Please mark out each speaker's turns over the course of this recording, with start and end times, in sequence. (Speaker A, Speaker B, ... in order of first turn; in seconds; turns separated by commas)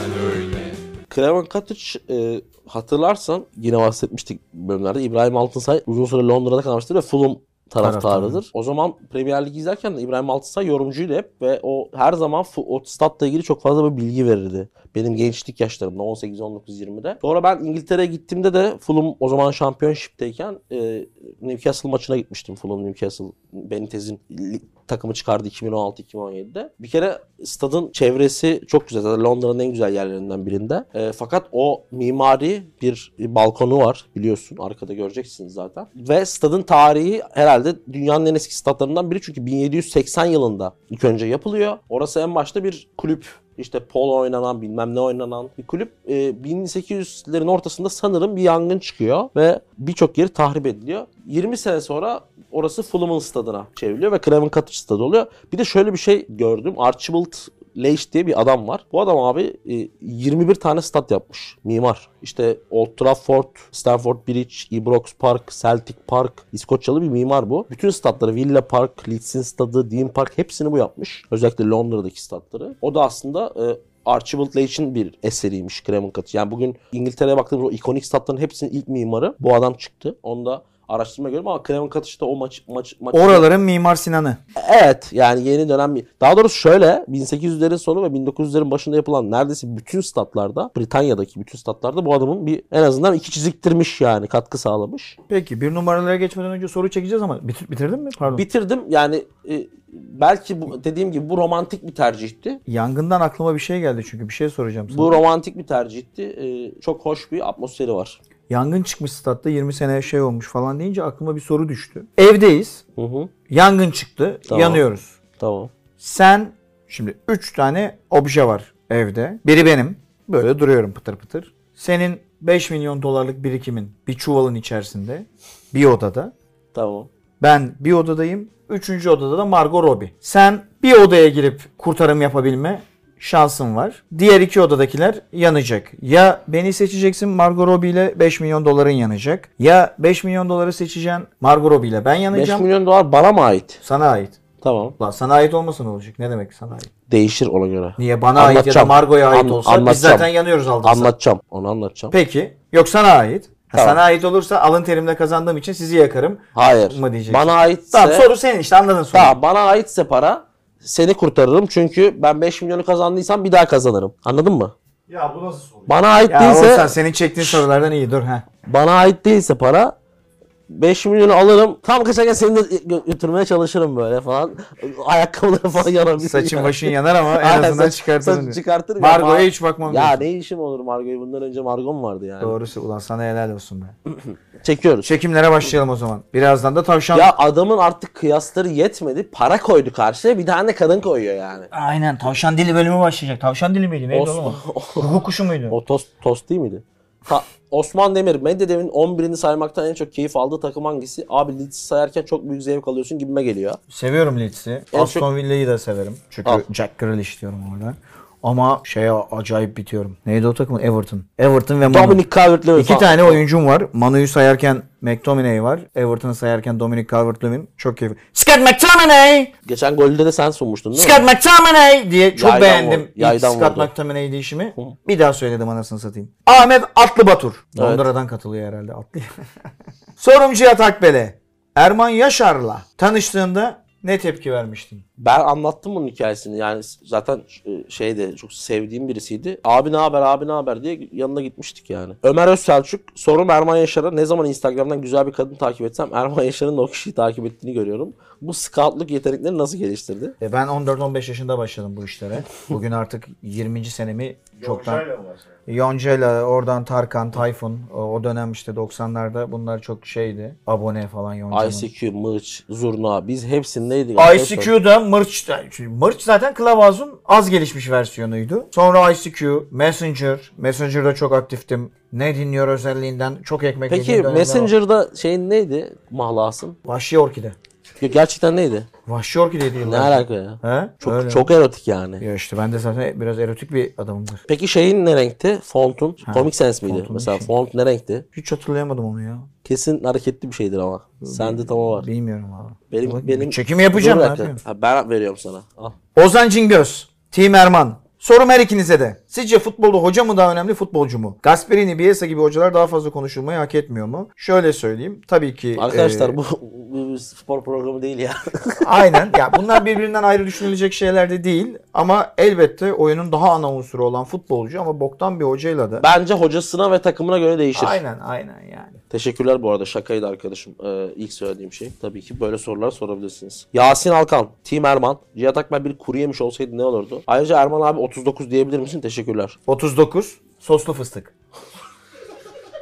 Speaker A: 1.1-83.5, Speaker B: 7.8-8.4, Speaker B: 83.1-84.4, Speaker A: 84.6-95.2, Speaker B: 95.3-98.5, Speaker A: 98.3-102.6, Speaker B: 102.7-105.2, Speaker A: 104.9-108.2, Speaker B: 108.5-112.8, Speaker A: 113.0-113.3, Speaker B: 113.5-115.2, Speaker A: 114.5-114.8, Speaker A: 115.4-115.7, Speaker B: 116.0-126.3, Speaker A: 126.7-127.1, Speaker B: 127.4-142.7, Speaker A: 142.3-143.8, Speaker B: 143.8-144.4, Speaker A: 144.6-145.0, Speaker B: 145.0-146.9, Speaker A: 147.1-150.3, Speaker B: 148.0-151.1, Speaker A: 150.8-152.2, Speaker B: 152.1-159.4, Speaker A: 153.7-154.0, Speaker A: 156.6-158.3, Speaker A: 159.1-164.7, Speaker C: 165.1-166.2, Speaker A: 165.9-167.6, Speaker B: 166.3-168.5, Speaker A: 168.7-169.9, Speaker A: 170.7-182.6, Speaker B: 176.2-180.3, Speaker B: 182.4-183.9, Speaker A: 184.1-185.1, Speaker B: 185.0-187.3, Speaker A: 187.1-191.7, Speaker B: 191.7-195.8, Speaker A: 194.1-195.1, Speaker A: 195.7-203.8, Speaker B: 203.9-212.2, Speaker A: 204.9-205.3, Speaker A: 211.9-213.4, Speaker B: 212.8-219.5, Speaker A: 219.7-221.3, Speaker B: 220.9-229.3, Speaker A: 222.3-223.9, Speaker A: 227.8-228.1, Speaker B: 230.2-235.0, Speaker A: 235.2-250.3, Speaker B: 250.4-255.1, Speaker C: 254.6-255.6, Speaker B: 255.7-261.9, Speaker A: 261.5-264.7, Speaker B: 264.2-274.7, Speaker A: 273.9-276.8, Speaker B: 276.9-277.6, Speaker A: 278.0-278.9, Speaker B: 279.1-281.5, Speaker A: 279.8-282.2, Speaker B: 282.2-284.4, Speaker A: 284.5-288.2, Speaker B: 286.2-287.5, Speaker B: 288.3-289.5, Speaker A: 289.6-292.1, Speaker B: 291.2-294.6, Speaker A: 292.9-296.0, Speaker B: 296.2-306.4, Speaker A: 305.8-309.8, Speaker B: 308.8-316.1, Speaker A: 316.0-318.0, Speaker B: 317.8-319.0, Speaker A: 319.1-329.6, Speaker B: 329.7-331.3